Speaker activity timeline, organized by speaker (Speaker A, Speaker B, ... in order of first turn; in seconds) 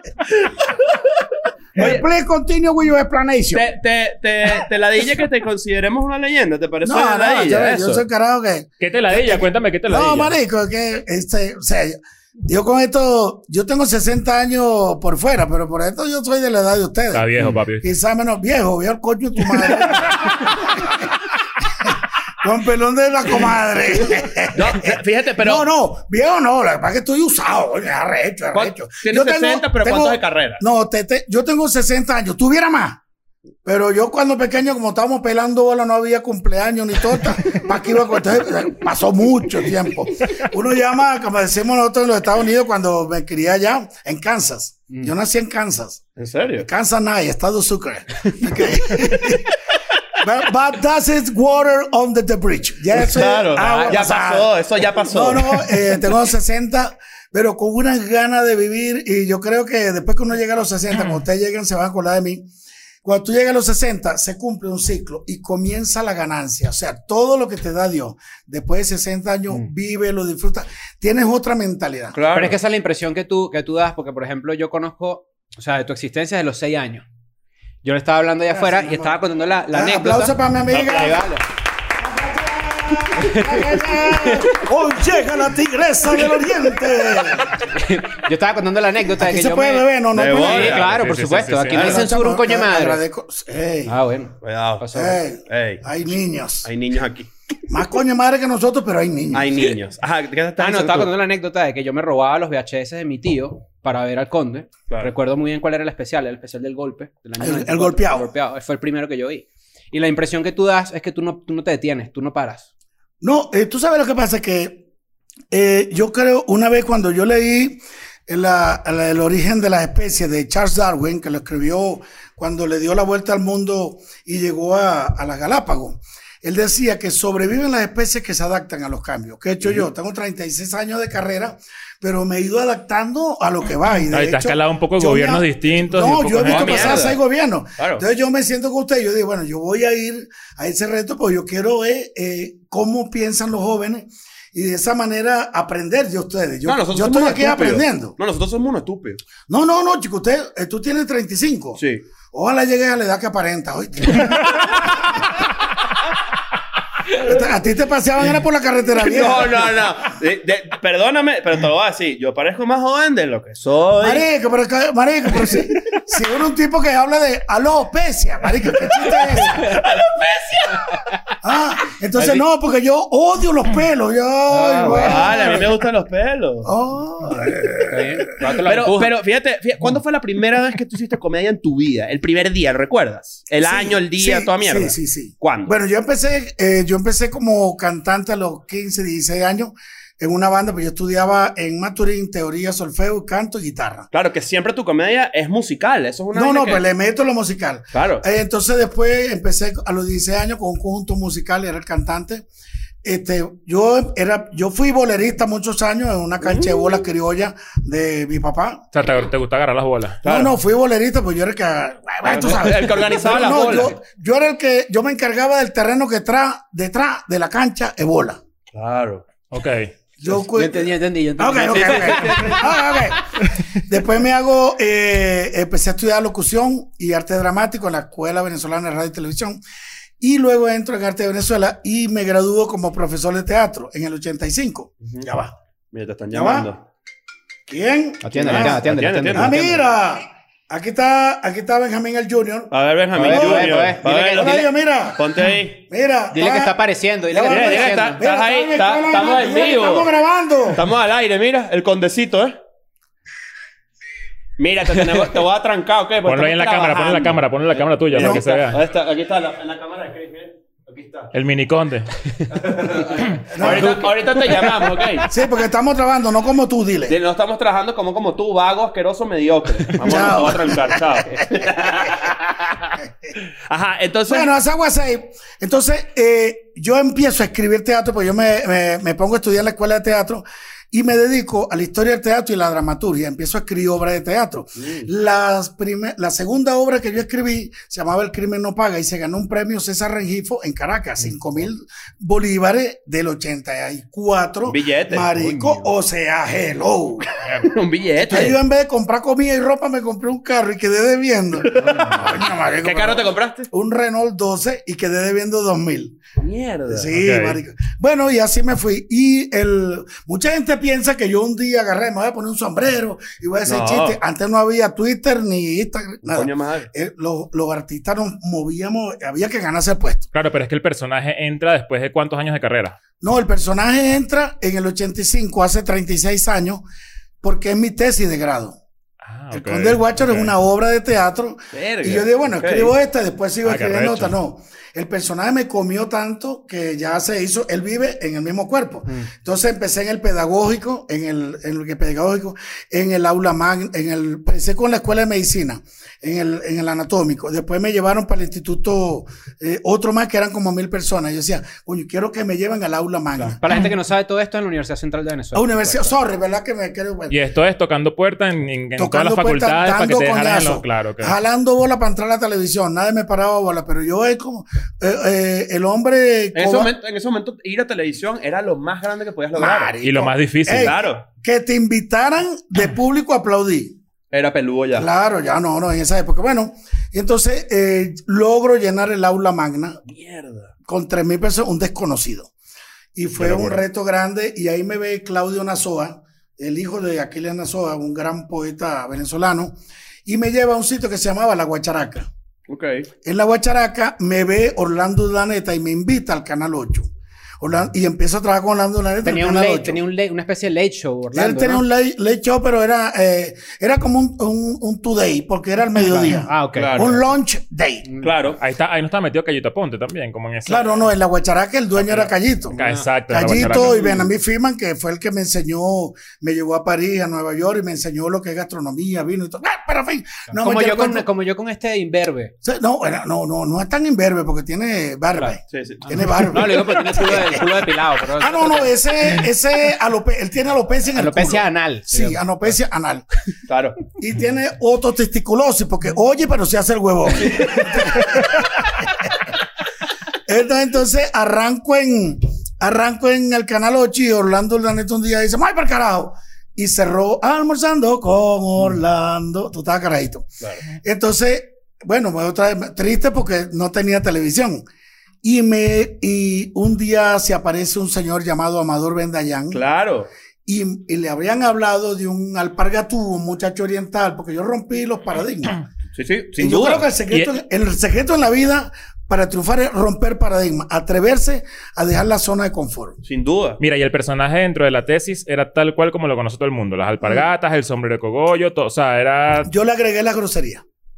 Speaker A: 0.2-2.0, 3.5-8.0, 24.5-25.7, 28.5-30.6, 46.2-46.6, 53.0-55.8, 72.1-72.6, 90.1-91.0, 91.7-92.0, 94.4-95.8, 96.6-97.3, 99.3-101.1, 136.4-137.2, 137.8-138.0, 146.7-149.2, 159.0-164.2, 169.1-171.0, 174.9-176.7, 178.6-185.7, 194.1-196.8, 197.9-198.2, 206.4-207.0, 210.2-210.5, 212.2-213.9, 218.7-219.2, 221.6-222.7, 235.9-236.8, 238.4-239.7, 242.7-245.8, 247.5-250.1, 250.7-252.5, 254.6-261.3, 262.5-265.3, 267.1-272.9, 273.7-274.5, 284.8-285.1, 294.7-295.4, 297.7-298.6, 301.6-303.7, 306.4-307.1, 313.6-314.2, 316.2-316.9, 331.7-332.9, 366.5-369.9, 370.7-371.2, 374.3-375.1, 380.1-380.7, 392.7-393.1, 406.7-407.2, 408.2-408.6, 425.7-426.2, 433.7-434.0, 459.7-460.3, 466.1-467.1, 473.2-473.8
Speaker B: 1.7-3.6, 6.8-21.1, 21.8-33.0, 33.6-46.0, 46.6-49.6, 50.2-62.5, 63.0-72.2, 78.5-79.2, 79.7-81.3, 82.0-87.6, 89.1-90.8, 91.7-93.9, 94.9-96.7, 97.7-99.7, 107.4-108.3, 113.2-114.8, 115.5-148.2, 149.5-151.8, 152.3-154.7, 157.1-159.9, 164.0-169.8, 171.4-175.8, 176.6-178.0, 183.6-194.1, 196.3-202.4, 203.0-208.8, 210.2-218.4, 220.2-229.6, 230.2-235.5, 236.3-236.7, 237.7-250.8, 258.1-258.4, 263.5-264.1, 265.2-267.2, 270.0-271.9, 274.3-297.3, 298.2-306.2, 306.9-320.3, 323.2-326.8, 327.4-328.8, 329.5-353.6, 355.5-357.4, 359.0-366.9, 369.5-374.0, 374.9-380.0, 380.9-382.5, 383.1-392.3, 393.2-397.1, 397.6-400.0, 401.3-408.1, 410.7-412.8, 413.3-421.2, 422.6-433.2, 434.2-439.4, 440.5-454.8, 455.4-459.8, 460.6-465.8, 466.6-473.2, 479.6-480.8
Speaker C: 8.8-10.3, 17.1-17.9, 90.7-92.0, 134.1-137.0, 208.9-210.2, 219.5-219.9, 256.2-258.8, 261.3-262.1, 297.4-297.7, 307.1-307.6, 320.3-323.0, 329.2-330.5, 333.6-334.3, 357.3-361.3, 370.0-370.9, 383.4-383.8, 408.6-411.1, 412.0-414.2, 473.8-479.7
Speaker D: 53.5-54.0, 72.3-77.0, 77.8-81.4, 83.2-84.7, 87.6-93.0, 93.9-95.2, 100.6-112.7, 172.2-172.4, 174.5-175.3, 177.9-179.1, 220.4-222.7, 238.2-239.8, 243.1-244.7, 246.3-248.2, 353.4-356.1, 399.2-401.8, 406.0-407.1, 412.7-413.1, 420.5-422.5, 426.1-429.1, 431.1-432.4